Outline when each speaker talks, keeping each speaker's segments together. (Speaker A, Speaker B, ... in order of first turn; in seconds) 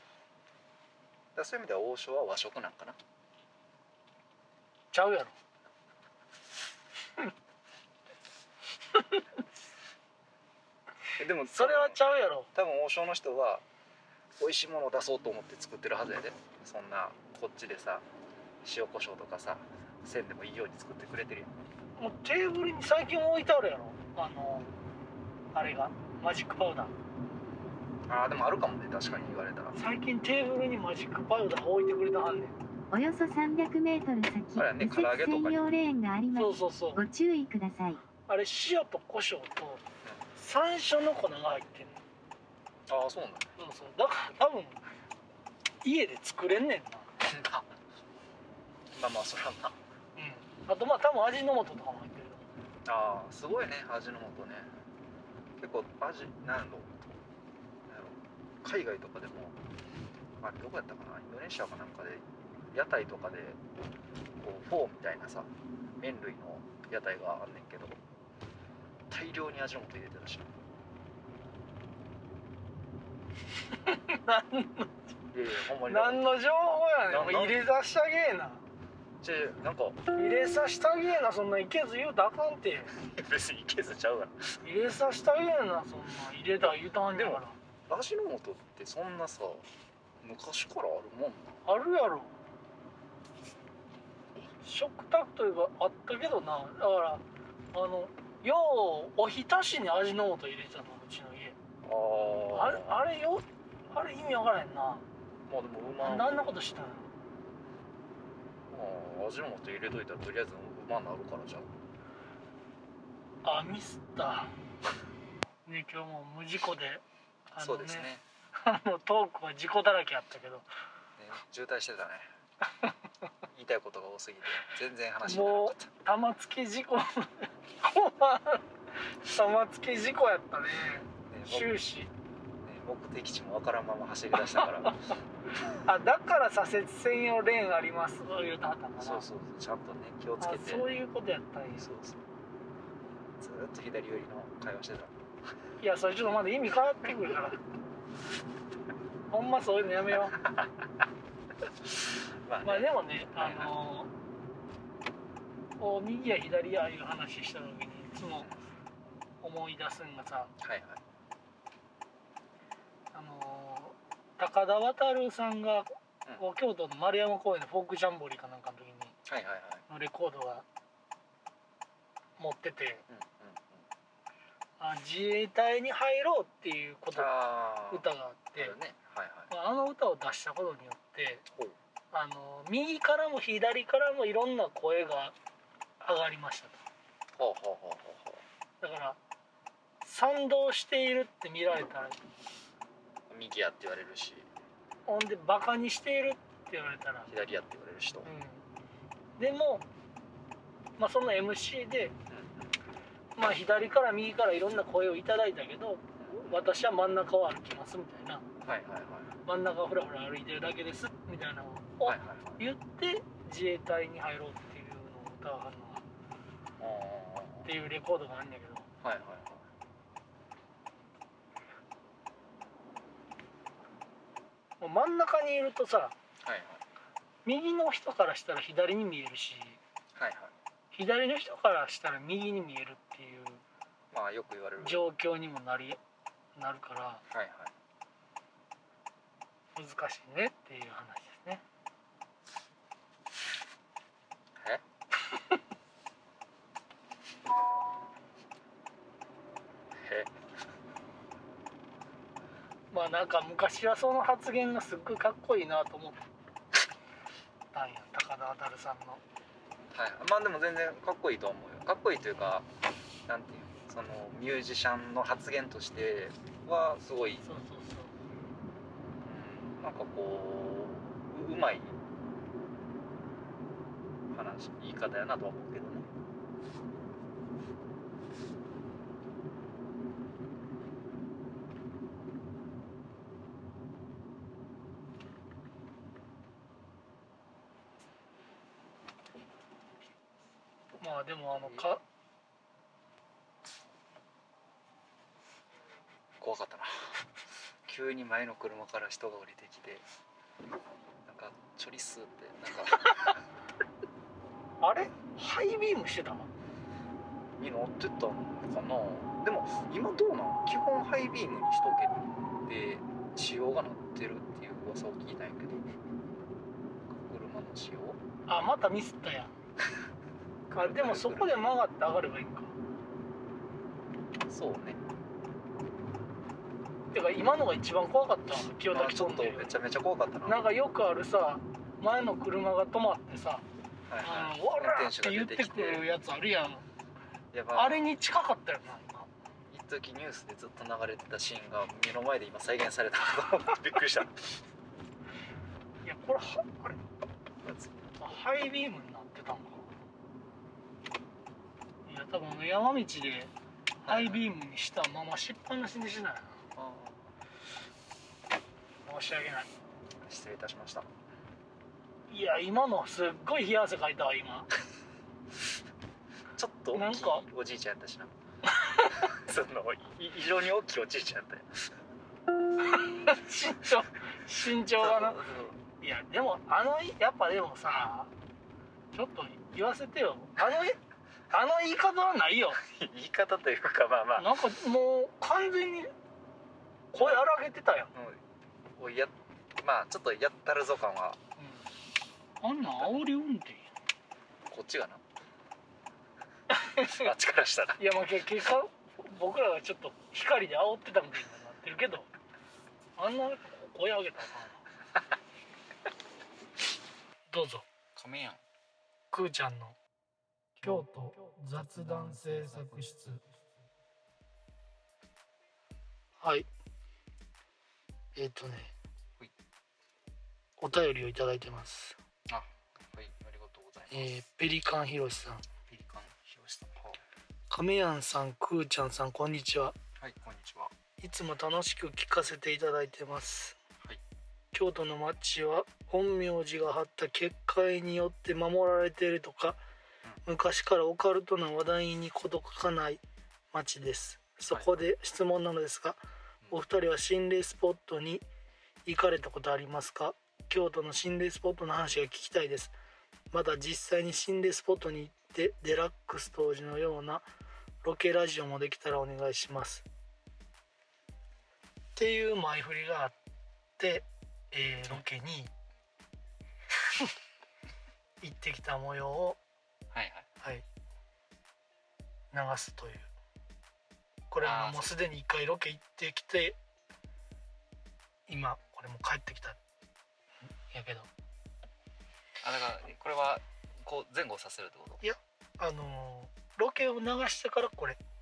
Speaker A: 1.3-3.0, 11.2-12.0, 12.5-13.6, 14.4-18.1, 18.6-21.6, 28.1-29.7, 34.6-35.6, 42.9-43.5, 47.2-47.7, 48.9-49.8, 52.8-54.7, 55.6-57.2, 57.9-59.6, 60.4-63.6, 64.4-68.0, 69.1-70.5, 75.3-76.2, 77.0-77.6, 79.2-80.0, 83.0-84.6, 87.1-89.7, 90.2-91.6, 101.8-103.0, 105.5-106.6, 108.7-111.7, 117.6-118.2, 121.2-122.3, 123.5-125.9, 131.3-131.8, 132.6-135.0, 139.0-140.9, 141.8-142.2, 143.4-145.2, 150.4-150.7, 152.4-153.7, 158.4-158.6, 160.6-161.0, 169.2-169.8, 173.1-173.8, 177.1-179.5, 187.3-188.4, 193.3-194.5, 197.3-198.3, 202.3-202.7, 206.2-206.6, 208.6-209.3, 212.0-212.6, 216.8-217.7, 219.0-219.7, 226.4-226.8, 230.1-230.5, 234.1-235.0, 237.3-237.7, 244.6-244.8, 249.9-250.3, 259.9-262.7, 263.2-267.4, 269.2-272.0, 274.3-276.1, 291.5-291.9, 296.4-297.1, 297.9-300.0, 301.2-303.4, 307.6-315.8, 317.1-318.2, 320.7-321.5, 324.5-325.0, 328.9-330.6, 334.1-336.1, 337.5-338.0, 339.7-344.6, 347.6-348.3, 354.1-354.5, 356.7-357.3, 360.2-361.1, 366.6-368.3, 369.1-371.9, 375.0-375.8, 382.8-384.5, 387.1-387.4, 388.1-388.4, 389.0-391.4, 392.8-393.2, 394.7-395.2, 397.0-398.0, 408.1-408.6, 422.5-424.3, 425.9-427.2, 430.2-430.9, 470.1-470.5, 474.6-475.2, 482.6-485.2
Speaker B: 4.9-5.3, 8.9-9.2, 11.4-12.5, 22.0-24.7, 25.5-26.9, 29.7-32.5, 36.3-37.0, 38.3-39.8, 40.4-42.0, 43.6-44.8, 45.8-47.1, 50.1-52.5, 73.8-74.9, 75.8-78.6, 80.1-82.9, 84.6-87.6, 91.6-92.3, 94.6-101.5, 102.5-105.0, 106.0-107.1, 113.4-114.6, 115.7-120.7, 125.2-128.7, 129.2-132.1, 134.4-135.1, 135.7-139.2, 140.4-141.9, 145.8-147.6, 149.3-150.4, 152.6-154.1, 155.8-158.5, 159.4-160.5, 163.1-169.2, 169.9-170.6, 172.4-173.0, 174.8-177.3, 177.9-178.7, 179.5-181.4, 182.1-185.3, 186.0-186.8, 188.8-189.2, 190.0-192.2, 195.1-197.3, 198.2-198.6, 199.4-199.8, 201.0-202.1, 203.3-208.4, 209.4-216.0, 217.6-218.9, 224.8-226.1, 227.4-229.8, 230.9-233.6, 234.8-236.0, 236.6-237.2, 239.8-241.6, 252.9-256.2, 257.7-259.2, 267.4-268.2, 291.0-292.0, 304.8-306.5, 318.5-319.6, 320.7-322.7, 327.1-329.7, 330.4-333.6, 334.2-336.8, 337.7-339.3, 346.0-347.0, 348.2-349.9, 352.1-356.6, 359.1-359.7, 362.3-364.7, 366.9-367.4, 368.7-369.2, 372.8-375.4, 376.0-378.3, 379.1-381.0, 381.5-382.8, 384.4-386.1, 387.1-388.1, 391.6-391.9, 392.6-393.9, 396.7-397.3, 398.0-402.3, 403.2-404.8, 407.5-407.9, 409.3-409.9, 410.8-413.4, 416.4-416.7, 418.3-418.9, 420.8-422.2, 424.1-425.6, 427.7-429.9, 431.2-433.8, 434.7-439.8, 440.4-446.2, 446.7-448.4, 449.1-452.9, 453.5-457.4, 458.0-460.0, 462.1-463.4, 464.0-465.7, 468.4-469.6, 472.5-473.3, 474.5-476.8, 478.5-479.8, 480.9-481.3, 485.2-488.2
Speaker C: 32.9-38.0